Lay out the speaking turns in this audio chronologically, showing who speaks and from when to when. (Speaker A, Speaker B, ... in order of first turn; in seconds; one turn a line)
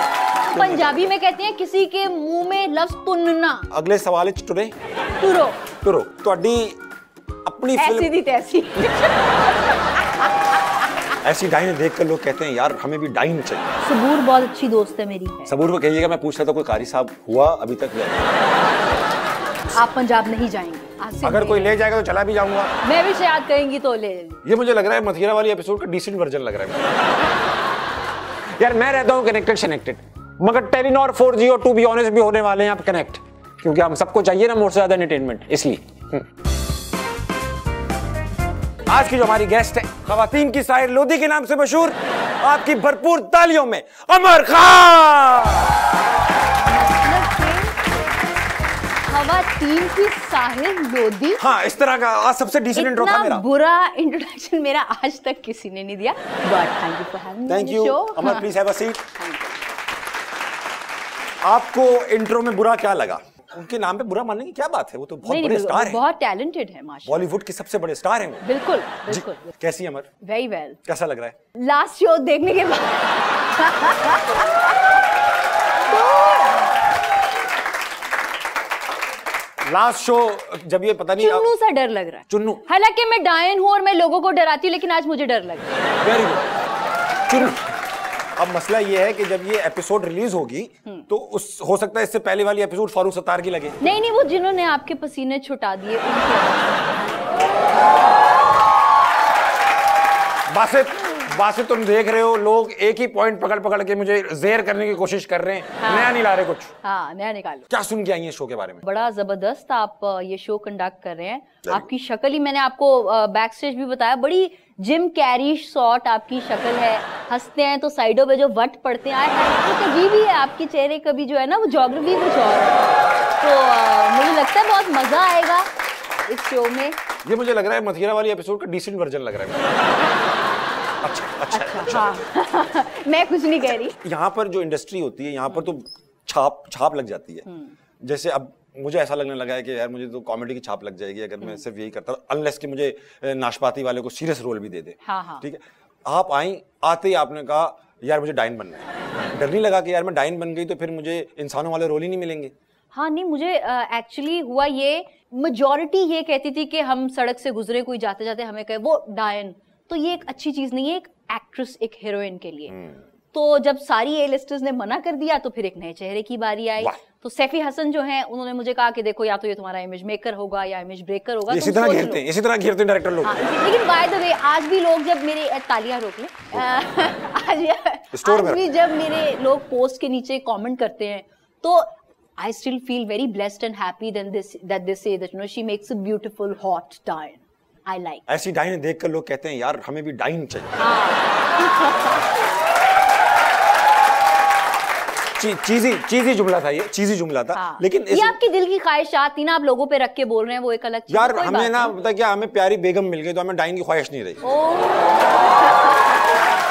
Speaker A: 0.5-1.1
Speaker B: 0.5-3.7
Speaker A: 3.7-4.7
Speaker B: 5.2-5.6
Speaker A: 5.8-6.8
Speaker A: 7.5-8.1
Speaker B: 7.8-10.6
Speaker A: 11.2-13.7
Speaker B: 13.8-15.5
Speaker A: 15.5-18.3
Speaker B: 19.7-21.8
Speaker A: 21.2-22.7
Speaker B: 22.8-24.4
Speaker A: 24.4-26.9
Speaker A: 28.6-36.2
Speaker A: 38.9-45.8
Speaker B: 46.6-47.8
Speaker B: 49.1-51.4
Speaker A: 51.4-53.5
Speaker B: 52.7-58.5
Speaker A: 57.5-59.0
Speaker B: 59.1-59.6
Speaker A: 61.4-66.0
Speaker B: 65.2-67.2
Speaker A: 67.0-68.4
Speaker B: 68.4-69.5
Speaker A: 69.1-70.1
Speaker B: 70.2-70.8
Speaker A: 70.9-71.3
Speaker B: 71.6-75.0
Speaker B: 75.9-76.8
Speaker A: 79.7-81.5
Speaker B: 81.2-85.7
Speaker A: 82.3-82.6
Speaker A: 86.0-86.5
Speaker A: 87.3-87.7
Speaker A: 88.4-93.8
Speaker B: 93.8-97.4
Speaker A: 100.5-106.7
Speaker B: 105.8-106.2
Speaker B: 106.8-107.7
Speaker A: 107.7-108.8
Speaker B: 108.8-125.7
Speaker B: 126.3-127.0
Speaker A: 127.2-129.7
Speaker A: 131.0-132.2
Speaker B: 131.5-134.0
Speaker A: 133.9-137.4
Speaker B: 137.4-137.7
Speaker A: 138.0-152.5
Speaker B: 145.0-145.4
Speaker B: 152.9-162.8
Speaker A: 162.7-163.0
Speaker B: 163.3-172.2
Speaker A: 171.5-173.3
Speaker B: 173.2-188.2
Speaker A: 178.1-178.6
Speaker A: 188.3-190.7
Speaker B: 190.8-192.2
Speaker A: 195.4-198.3
Speaker B: 197.5-201.9
Speaker A: 201.1-204.4
Speaker B: 204.4-206.2